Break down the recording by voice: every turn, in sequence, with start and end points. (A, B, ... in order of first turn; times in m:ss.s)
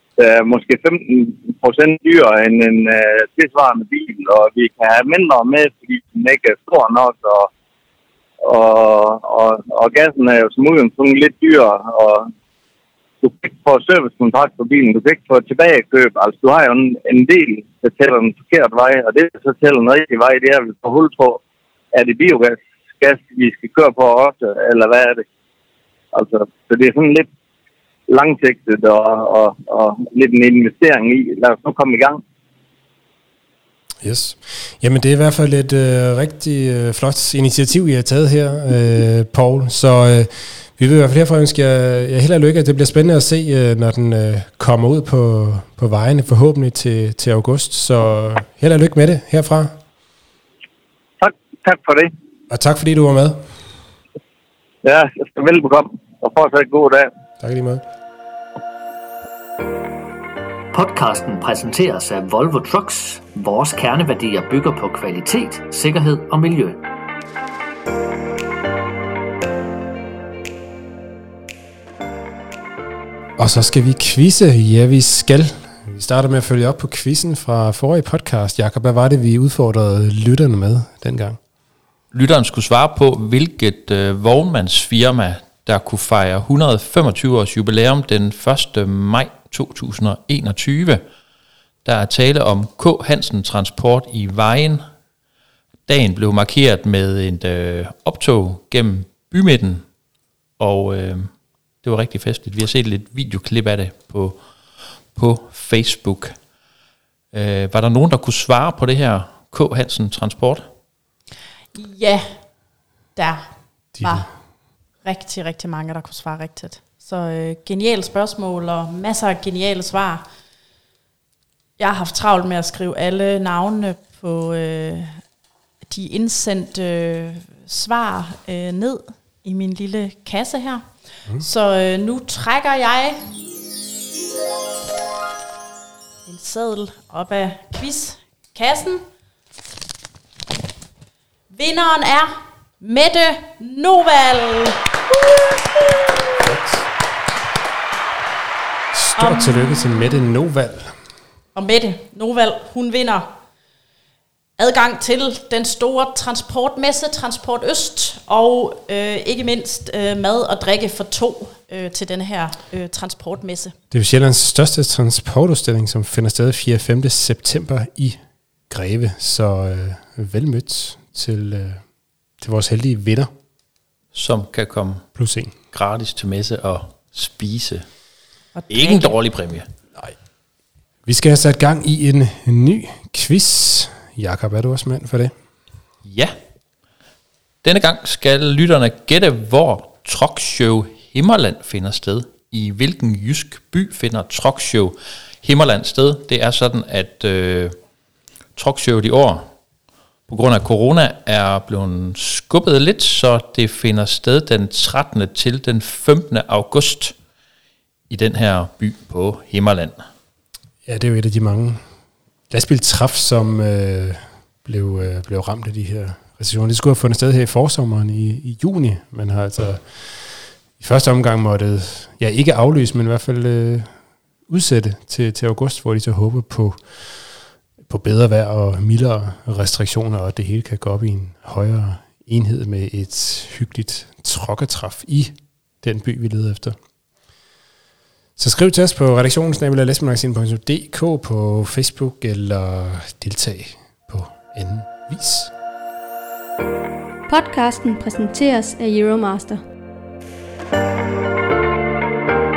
0:00.2-0:07.5 A
0:08.4-0:12.3 A
0:13.2-0:21.4 A
0:21.9-0:25.2 A
0:26.1-0:27.3 A
0:28.1-0:32.2 A
0:34.0-0:49.8 B
0:51.2-0:52.1 A
0:52.5-0:53.4 B
0:54.8-0:57.1 A
0:57.4-0:57.8 B
1:00.7-1:06.8 C
1:13.4-1:21.4 B
1:22.1-1:31.0 D
1:31.8-1:34.8 D
1:35.9-1:39.8 D
1:40.6-1:41.3 D
1:41.8-1:44.4 D
1:45.1-1:46.3 D
1:47.3-1:50.7 D
1:51.7-1:52.2 E
1:53.2-1:53.5 E
1:54.0-1:54.2 B
1:54.0-1:54.3 E
1:55.0-2:00.2 E
2:01.8-2:05.2 E
2:05.9-2:10.8 E
2:11.4-2:13.2 E
2:16.2-2:19.0 E
2:21.5-2:26.0 E
2:26.4-2:26.8 B
2:28.9-2:30.9 B
2:29.2-2:29.7 E
2:31.5-2:33.3 E
2:34.6-2:43.7 E
2:43.9-2:48.2 B
2:48.7-2:51.8 B
2:52.4-2:53.3 B
2:54.1-2:55.0 D
2:55.2-2:55.5 B
2:55.7-2:57.8 D
2:58.6-2:59.1 E
2:58.7-2:59.6 D
3:01.0-3:05.3 B
3:06.0-3:06.3 D
3:07.6-3:17.8 D
3:18.6-3:19.5 D
3:20.3-3:27.1 D
3:28.1-3:30.0 D
3:30.8-3:31.8 B
3:32.5-3:39.8 B
3:40.8-3:43.9 B
3:44.5-3:46.8 B
3:47.8-3:56.8 B
3:58.4-4:05.5 B
4:07.3-4:09.6 F